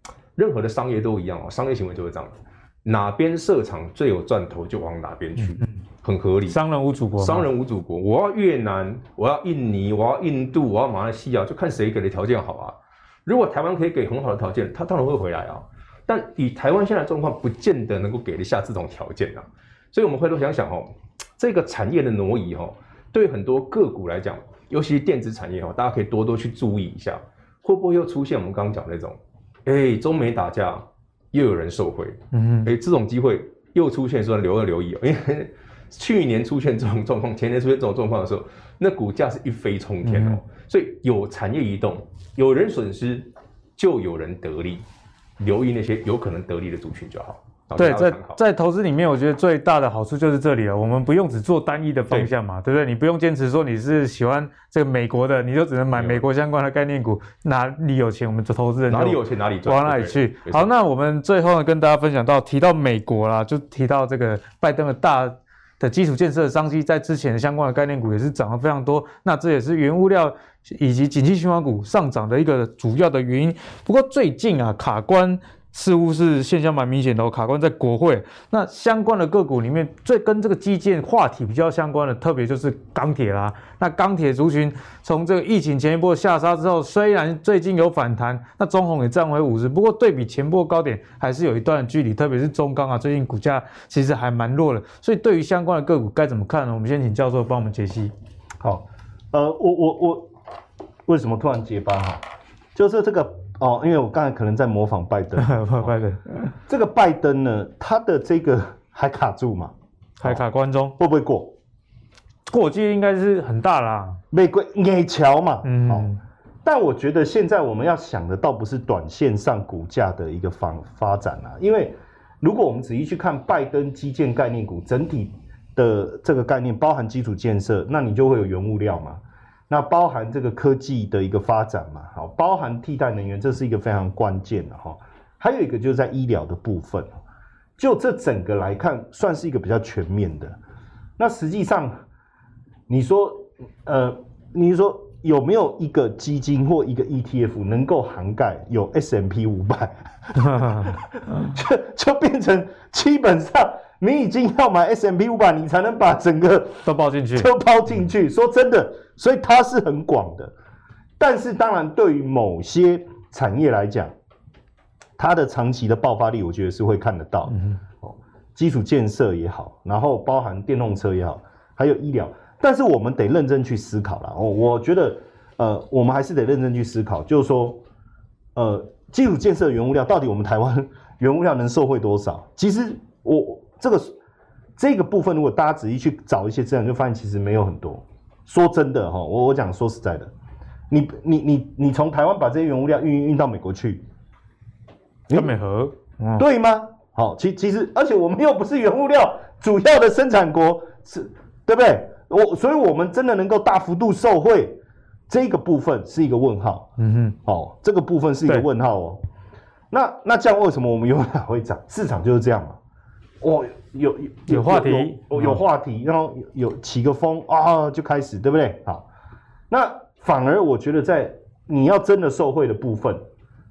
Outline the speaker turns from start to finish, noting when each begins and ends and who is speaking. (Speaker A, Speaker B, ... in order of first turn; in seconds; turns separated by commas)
Speaker A: 0.4-6.6, Speaker B: 6.5-7.5, Speaker A: 7.2-44.8, Speaker B: 32.3-32.7, Speaker B: 40.0-40.4, Speaker A: 45.4-48.4, Speaker B: 47.8-98.1, Speaker A: 55.9-56.2, Speaker A: 58.9-60.7, Speaker C: 98.6-100.3, Speaker C: 101.1-102.2, Speaker C: 102.8-105.9, Speaker B: 105.4-106.5, Speaker C: 106.7-110.4, Speaker B: 110.2-111.0, Speaker C: 111.0-111.5, Speaker B: 112.5-114.2, Speaker C: 114.3-116.1, Speaker B: 115.6-116.2, Speaker C: 116.7-137.1, Speaker C: 137.8-140.6, Speaker C: 141.2-142.0, Speaker C: 142.9-160.5, Speaker B: 150.4-150.9, Speaker B: 156.8-157.5, Speaker C: 161.2-164.1, Speaker C: 165.2-177.8, Speaker C: 178.6-184.2, Speaker C: 184.8-190.3, Speaker C: 190.9-194.0, Speaker B: 195.3-196.4, Speaker C: 196.4-204.8, Speaker C: 205.3-206.9, Speaker B: 207.0-207.4, Speaker C: 207.4-209.2, Speaker C: 209.9-212.8, Speaker C: 213.4-219.1, Speaker B: 214.5-215.6, Speaker C: 219.7-223.2